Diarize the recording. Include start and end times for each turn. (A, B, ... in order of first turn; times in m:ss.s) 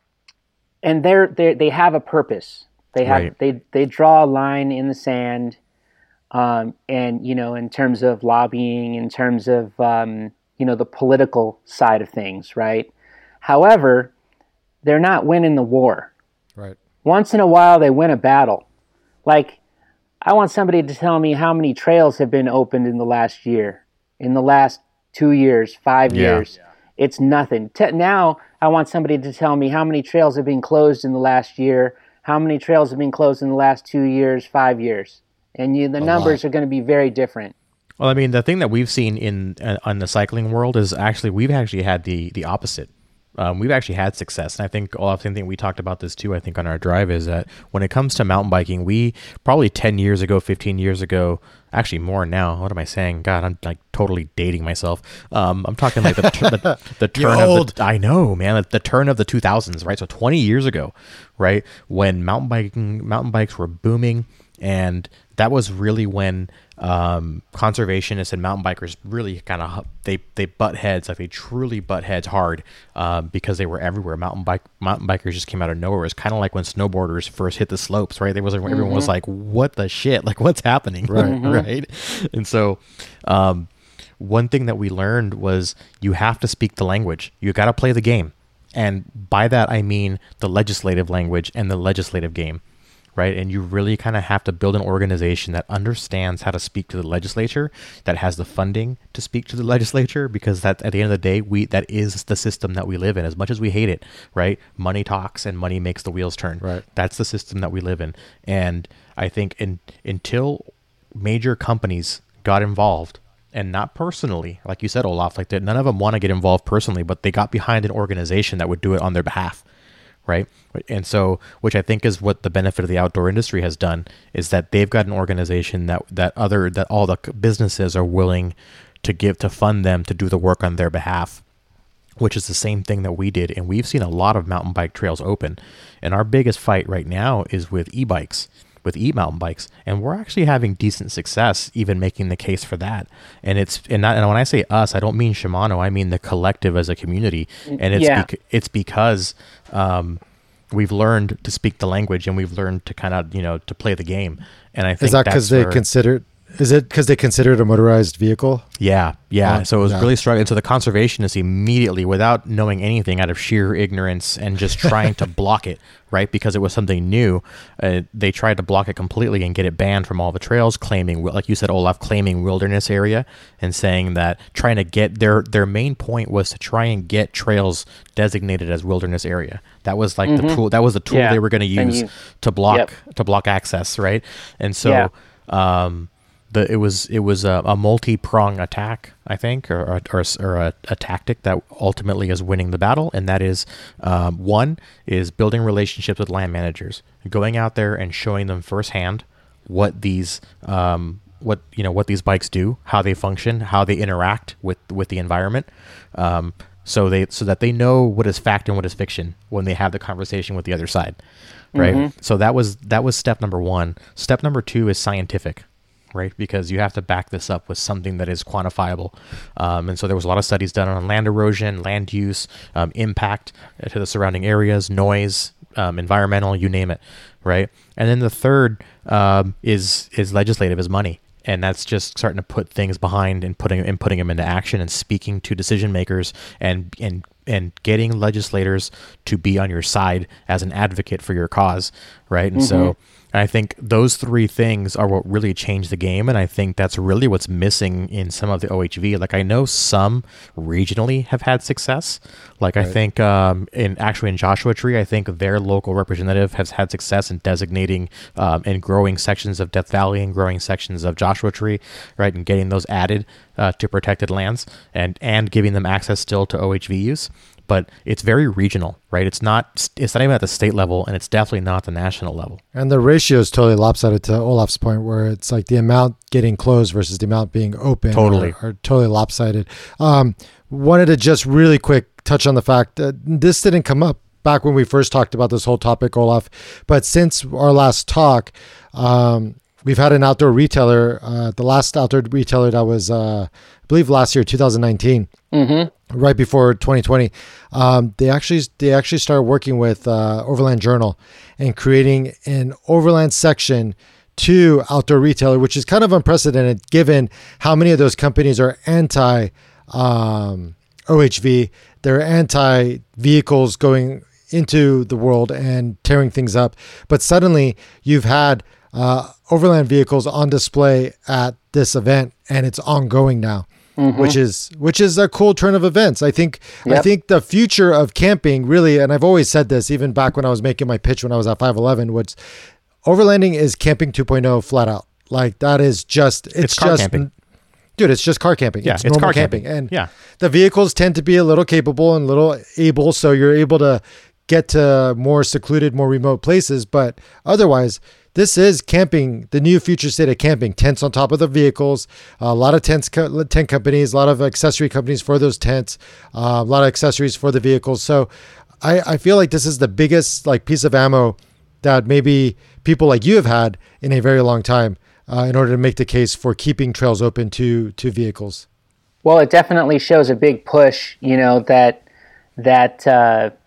0:00.8-0:05.6 A
0:03.0-0:03.3 B
0:06.3-0:12.9 A
0:13.4-0:14.1 A
0:14.8-0:16.1 A
0:17.0-0:18.6 A
0:19.3-0:19.6 A
0:20.2-0:37.5 A
0:26.1-0:26.4 B
0:36.0-0:36.4 C
0:38.0-1:23.7 B
0:56.1-0:57.7 C
1:18.7-1:19.1 A
1:21.1-1:21.6 C
1:21.2-1:21.6 A
1:24.2-1:32.6 B
1:33.2-1:50.6 B
1:51.2-1:59.6 B
2:00.3-2:11.4 B
2:12.2-2:35.8 B
2:27.7-2:28.3 A
2:35.0-2:38.7 C
2:38.8-3:31.2 B
2:39.4-2:40.1 C
3:00.3-3:02.1 A
3:04.8-3:05.1 A
3:31.8-3:32.1 A
3:31.8-4:32.6 B
4:02.6-4:02.9 A
4:32.8-4:55.3 C
4:38.1-4:38.6 B
4:55.5-4:55.9 A
4:56.1-5:32.4 C
5:24.0-5:24.4 A
5:33.0-5:37.3 C
5:36.6-5:37.2 B
5:38.0-5:58.3 C
5:38.8-5:40.1 B
5:58.8-6:08.6 C
6:09.2-6:12.0 A
6:12.6-6:13.5 A